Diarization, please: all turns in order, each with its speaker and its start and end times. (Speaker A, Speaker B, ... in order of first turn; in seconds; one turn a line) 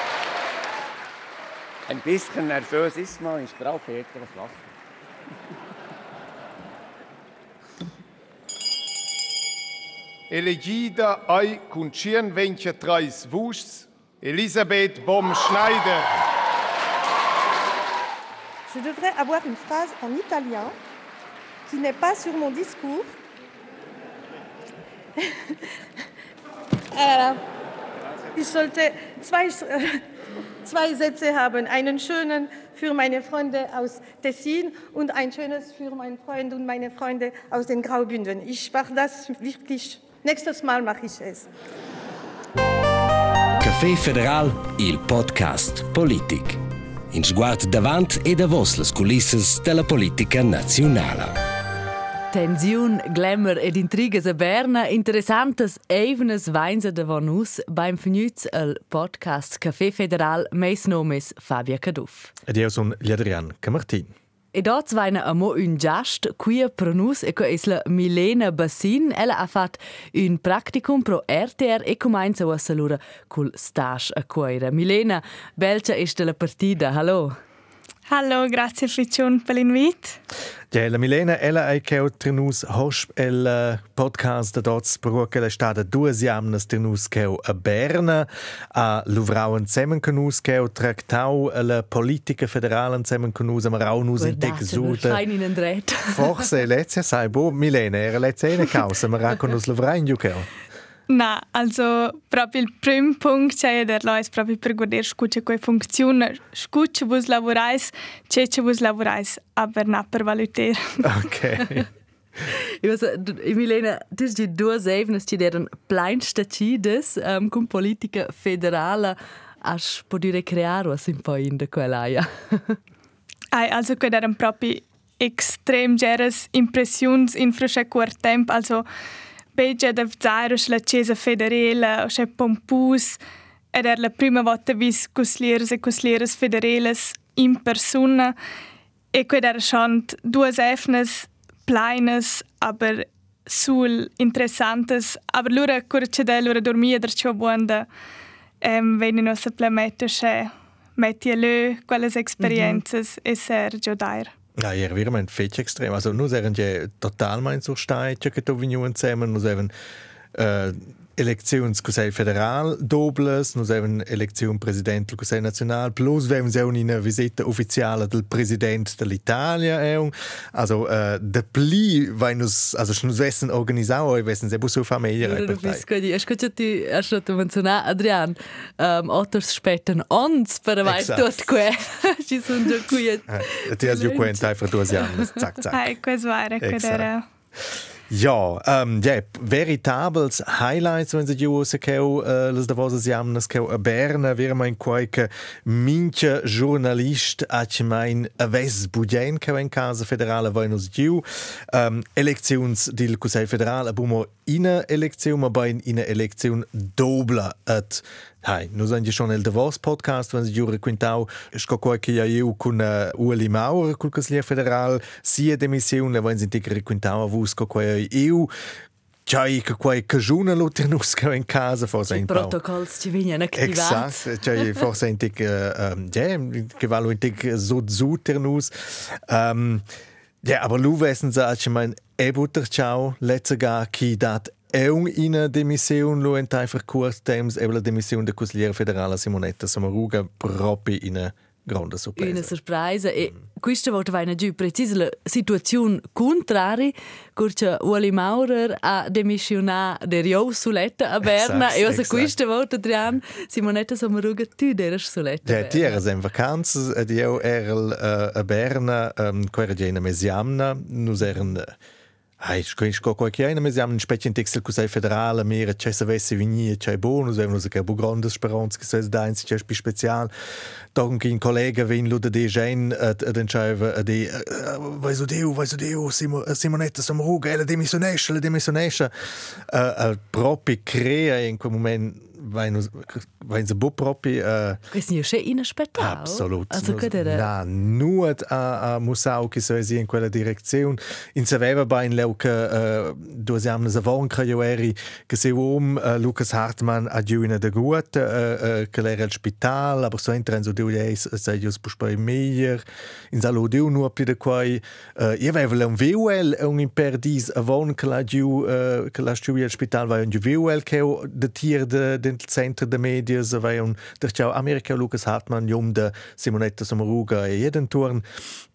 Speaker A: 1.9-4.6
Speaker B: 10.3-16.1
Speaker C: 18.7-20.8
Speaker C: 21.7-23.1
Speaker C: 25.2-25.6
Speaker C: 26.9-27.4
Speaker C: 28.4-30.0
Speaker C: 30.6-41.5
Speaker D: 43.6-46.6
Speaker D: 47.1-51.4
Speaker E: 52.3-62.3
Speaker F: 62.5-64.1
Speaker E: 64.5-77.3
Speaker G: 78.1-80.2
Speaker F: 80.7-95.2
Speaker E: 94.2-96.5
Speaker F: 96.1-100.5
Speaker G: 101.1-111.0
Speaker F: 111.0-111.9
Speaker E: 112.5-122.8
Speaker G: 123.5-128.8
Speaker G: 129.6-133.2
Speaker G: 133.7-138.4
Speaker G: 139.1-147.9
Speaker G: 148.6-154.3
Speaker E: 152.4-152.8
Speaker F: 154.6-159.7
Speaker F: 160.3-175.8
Speaker E: 175.2-185.3
Speaker F: 180.8-181.3
Speaker F: 183.3-185.9
Speaker G: 185.7-187.2
Speaker F: 186.6-187.1
Speaker F: 188.1-218.5
Speaker F: 219.3-222.6
Speaker E: 222.1-224.3
Speaker F: 223.6-229.9
Speaker F: 230.4-242.5
Speaker E: 242.2-256.0
Speaker F: 251.2-252.3
Speaker F: 255.5-261.7
Speaker F: 262.4-270.3
Speaker F: 270.9-284.8
Speaker E: 284.9-287.5
Speaker F: 286.0-318.5